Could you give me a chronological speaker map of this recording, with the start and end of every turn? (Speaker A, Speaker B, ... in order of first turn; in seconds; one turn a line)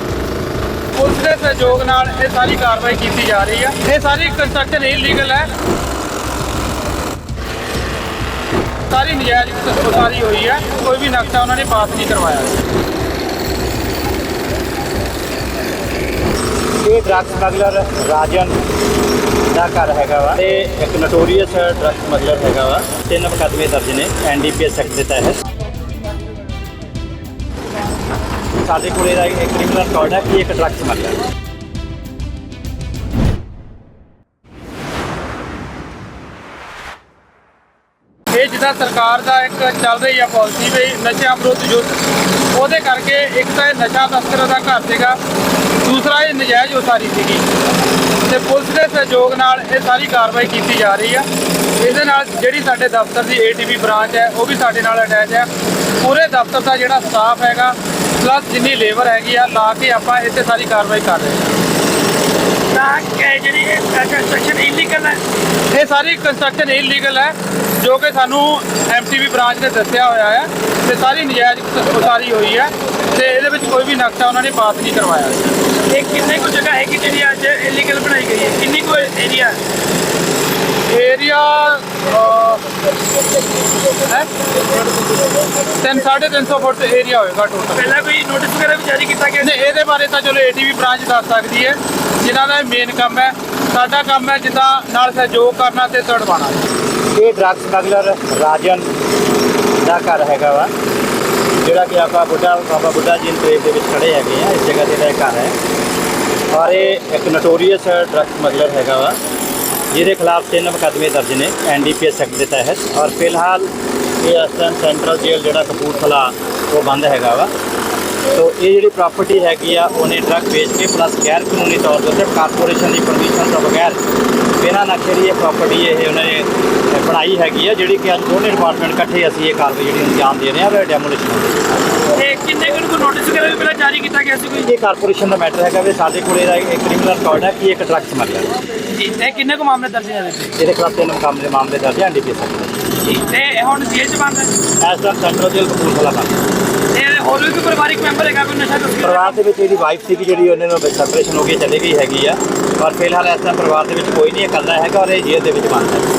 Speaker A: 0.9-5.5
Speaker A: 8.9-12.6
Speaker B: 16.8-18.6
Speaker B: 19.5-25.4
Speaker B: 28.6-31.2
Speaker A: 38.3-45.2
Speaker A: 45.8-47.5
Speaker A: 48.2-61.4
Speaker C: 62.7-65.2
Speaker A: 65.7-75.5
Speaker C: 75.9-79.6
Speaker A: 80.9-82.7
Speaker A: 83.9-84.5
Speaker A: 85.7-88.0
Speaker C: 87.8-89.7
Speaker A: 89.4-96.7
Speaker B: 97.1-98.9
Speaker B: 99.8-100.7
Speaker B: 101.6-105.5
Speaker B: 106.5-109.2
Speaker B: 109.9-117.5
Speaker B: 118.3-124.0
Speaker B: 124.6-131.6
Speaker C: 132.2-134.7
Speaker B: 134.6-138.5
Speaker C: 138.9-140.6
Speaker B: 140.6-142.8
Speaker C: 143.0-144.5
Speaker B: 144.8-146.4
Speaker C: 146.9-149.4
Speaker B: 149.0-156.1